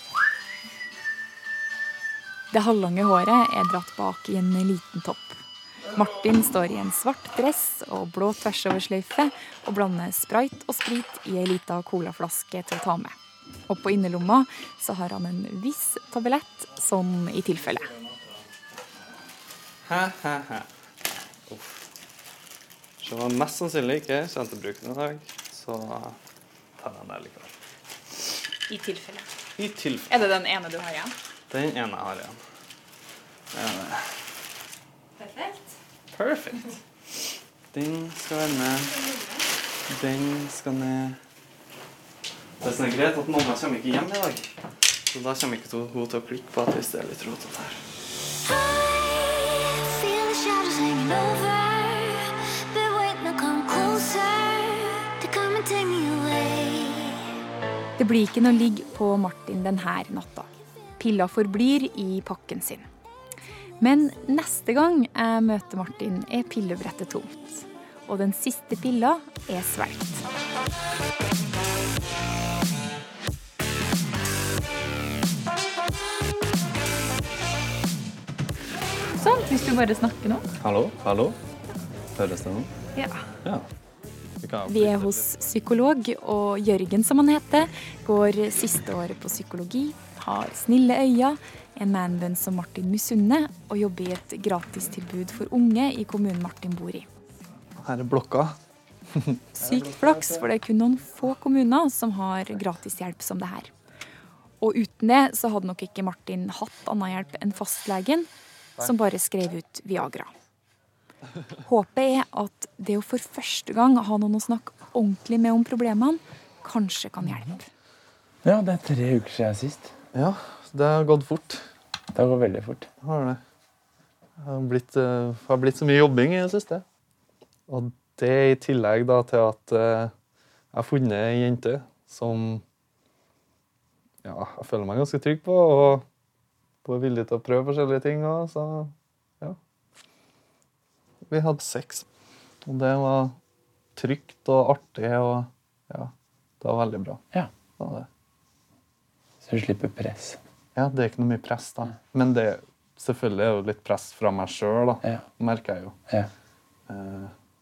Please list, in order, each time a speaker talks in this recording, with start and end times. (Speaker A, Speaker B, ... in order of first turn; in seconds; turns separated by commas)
Speaker A: 2.5-13.2, Speaker A: 13.7-17.9, Speaker B: 19.9-20.7, Speaker B: 21.5-21.8, Speaker B: 23.0-26.2, Speaker B: 26.8-27.5, Speaker A: 28.7-29.3, Speaker B: 29.6-30.1, Speaker A: 30.1-31.1, Speaker B: 31.5-32.4, Speaker B: 33.5-34.1, Speaker A: 35.2-35.7, Speaker B: 36.1-36.7, Speaker B: 37.7-39.0, Speaker A: 38.9-39.4, Speaker B: 39.9-41.2, Speaker B: 42.6-44.5, Speaker B: 45.1-47.8, Speaker C: 48.4-57.2, Speaker A: 58.0-62.9, Speaker A: 63.8-70.2, Speaker A: 79.2-80.5, Speaker B: 80.6-81.3, Speaker B: 82.2-82.7, Speaker A: 82.9-83.2, Speaker D: 84.4-85.3, Speaker A: 84.7-97.1, Speaker D: 97.8-98.6, Speaker A: 99.5-103.7, Speaker A: 104.6-110.3, Speaker A: 111.6-117.7, Speaker E: 118.4-119.9, Speaker D: 120.1-121.7, Speaker E: 122.1-122.9, Speaker D: 123.0-123.4, Speaker D: 124.4-126.8, Speaker D: 127.7-130.1, Speaker D: 130.7-132.6, Speaker D: 134.2-136.0, Speaker D: 136.8-139.6, Speaker D: 141.3-141.8, Speaker B: 141.7-142.0, Speaker D: 142.6-143.4, Speaker D: 143.9-147.2, Speaker D: 147.8-148.1, Speaker E: 149.4-150.4, Speaker D: 150.7-156.0, Speaker D: 156.9-157.3